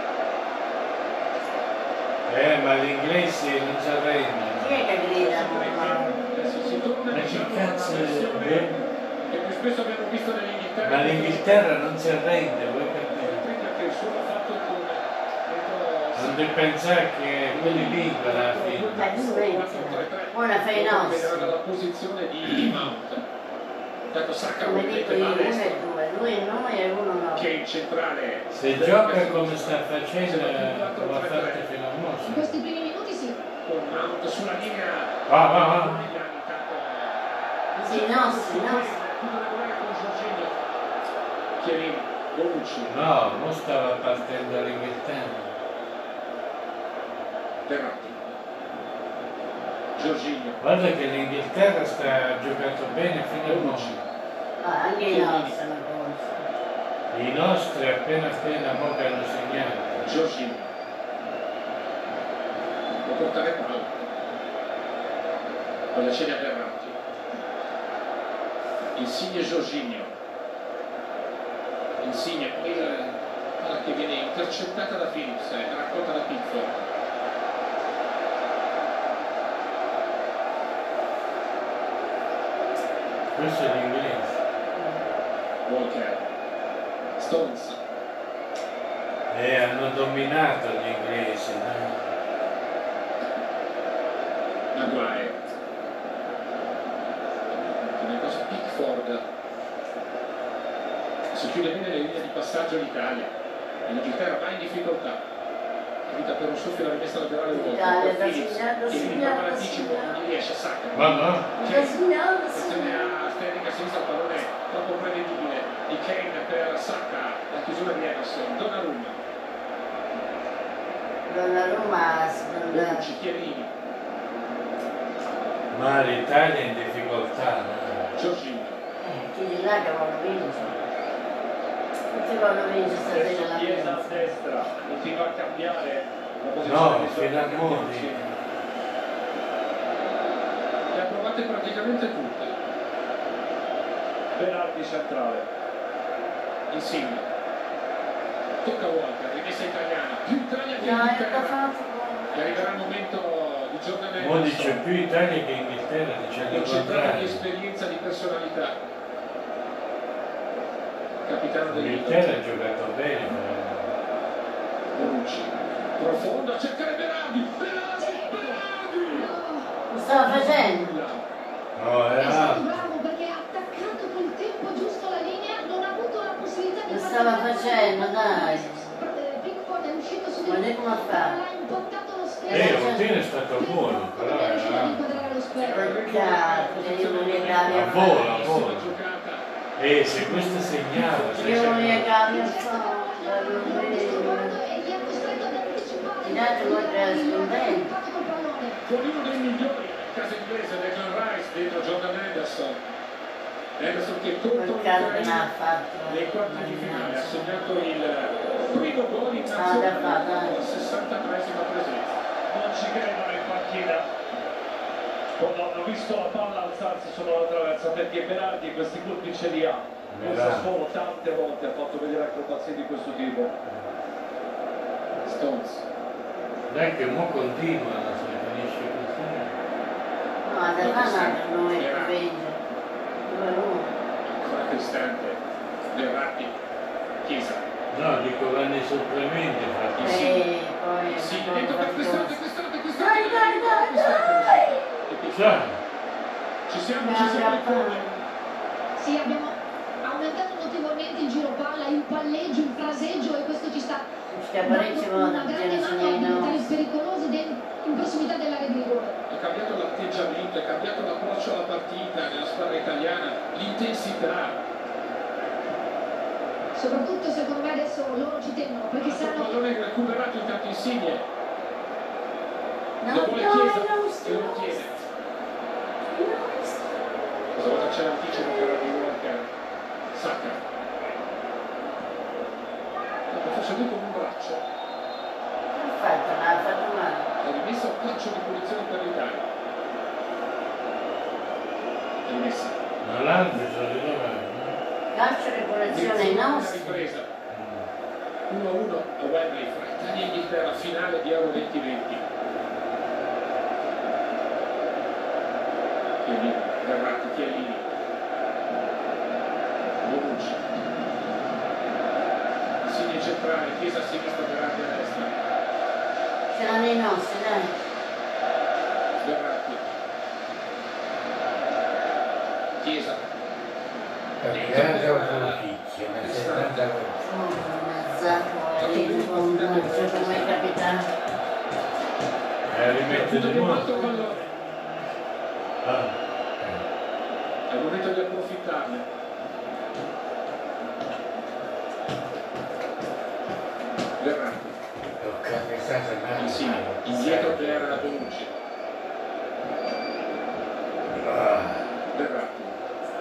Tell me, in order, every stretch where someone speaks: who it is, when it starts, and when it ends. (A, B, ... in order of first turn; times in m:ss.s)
0:02.2-0:04.8 A
0:04.6-0:06.1 B
0:05.1-0:12.0 C
0:07.1-0:08.8 A
0:10.8-0:13.4 A
0:13.2-0:16.4 C
0:16.1-0:19.1 A
0:17.5-0:23.2 C
0:19.0-0:21.5 B
0:24.1-0:25.8 C
0:24.6-0:27.4 B
0:27.3-0:31.6 C
0:28.5-0:32.5 A
0:32.3-0:33.4 D
0:33.6-0:37.2 C
0:35.3-0:36.0 A
0:37.7-0:38.9 B
0:37.8-0:40.6 C
0:41.6-0:43.0 C
0:42.8-0:45.5 A
0:47.6-0:48.3 C
0:50.0-0:50.6 C
0:50.6-0:54.0 A
0:53.4-0:54.0 C
0:54.6-0:56.5 B
0:55.0-0:55.5 C
0:57.1-1:00.1 A
1:00.0-1:00.7 C
1:03.0-1:04.0 C
1:05.9-1:07.0 C
1:08.9-1:10.1 C
1:12.0-1:16.8 C
1:23.3-1:24.4 A
1:25.6-1:26.2 C
1:27.2-1:27.8 C
1:29.3-1:32.1 A
1:34.7-1:35.4 C
1:37.5-1:39.2 C
1:41.3-1:43.3 C
1:43.8-1:45.2 C
1:46.1-1:59.2 C
1:47.5-1:50.2 B
1:50.9-1:51.5 A
1:51.6-1:53.1 B
2:01.2-2:03.0 B
2:02.7-2:03.7 C
2:05.7-2:08.1 A
2:08.1-2:08.8 C
2:09.0-2:10.7 B
2:12.1-2:14.3 B
2:13.0-2:18.3 E
2:16.6-2:18.5 A
2:20.9-2:22.5 C
2:24.3-2:25.4 E
2:26.7-2:27.3 C
2:28.6-2:31.6 C
2:30.8-2:32.9 B
2:32.3-2:34.8 C
2:34.2-2:37.4 A
2:36.5-2:38.8 C
2:41.2-2:42.3 C
2:41.7-2:43.9 A
2:44.9-2:49.3 C
2:48.0-2:49.7 D
2:49.9-2:50.9 B
2:50.2-2:51.2 C
2:51.8-2:52.8 A
2:52.2-3:03.0 D
2:56.9-2:58.9 B
3:00.4-3:01.4 B
3:02.4-3:03.0 B
3:02.5-3:05.2 A
3:03.5-3:05.8 D
3:05.6-3:09.4 C
3:05.7-3:08.5 B
3:07.7-3:08.9 A
3:09.8-3:12.1 A
3:10.6-3:12.0 C
3:11.4-3:14.5 B
3:12.1-3:18.8 D
3:16.2-3:17.8 B
3:18.8-3:22.8 C
3:23.8-3:25.4 C
3:24.5-3:27.6 B
3:26.0-3:32.2 C
3:29.5-3:30.6 B
3:32.5-3:34.1 E
3:35.4-3:43.5 E
3:40.1-3:40.7 A
3:45.2-3:45.8 C
3:46.7-3:49.5 A
3:50.4-3:52.6 B
3:50.8-3:52.2 C
3:53.2-3:53.9 B
3:54.2-3:55.4 C
3:55.9-3:56.6 C
3:57.2-3:57.6 C
3:57.9-4:00.2 A
3:59.9-4:00.4 C
4:00.0-4:02.4 B
4:01.1-4:05.6 C
4:03.0-4:04.9 B
4:05.3-4:05.8 A
4:06.7-4:08.1 C
4:07.0-4:08.2 B
4:09.0-4:14.0 D
4:14.3-4:16.6 B
4:14.6-4:19.1 D
4:19.3-4:24.6 C
4:26.7-4:29.5 D
4:29.0-4:31.2 C
4:33.0-4:34.8 B
4:33.1-4:35.0 C
4:36.1-4:36.8 B
4:37.5-4:39.5 C
4:40.1-4:40.6 C
4:43.3-4:44.6 C
4:45.7-4:47.3 B
4:47.4-4:49.4 C
4:52.2-4:52.8 C
4:53.0-4:54.8 A
4:55.1-4:57.0 B
4:55.9-4:57.2 C
4:57.5-4:57.9 A
4:58.5-5:02.2 C
5:06.2-5:07.9 C
5:10.0-5:10.6 C
5:12.8-5:15.3 C
5:16.5-5:17.7 B
5:19.2-5:19.9 C
5:22.8-5:23.2 C
5:24.4-5:27.2 F
5:24.5-5:25.6 C
5:26.2-5:26.8 C
5:27.2-5:31.1 B
5:28.8-5:30.7 C
5:32.6-5:33.9 A
5:32.9-5:34.4 C
5:33.6-5:35.1 B
5:35.8-5:36.1 A
5:36.6-5:36.8 F
5:37.7-5:39.0 C
5:44.2-5:44.8 C
5:45.2-5:48.2 F
5:46.3-5:48.5 C
5:51.1-5:51.8 F
5:52.1-5:52.8 C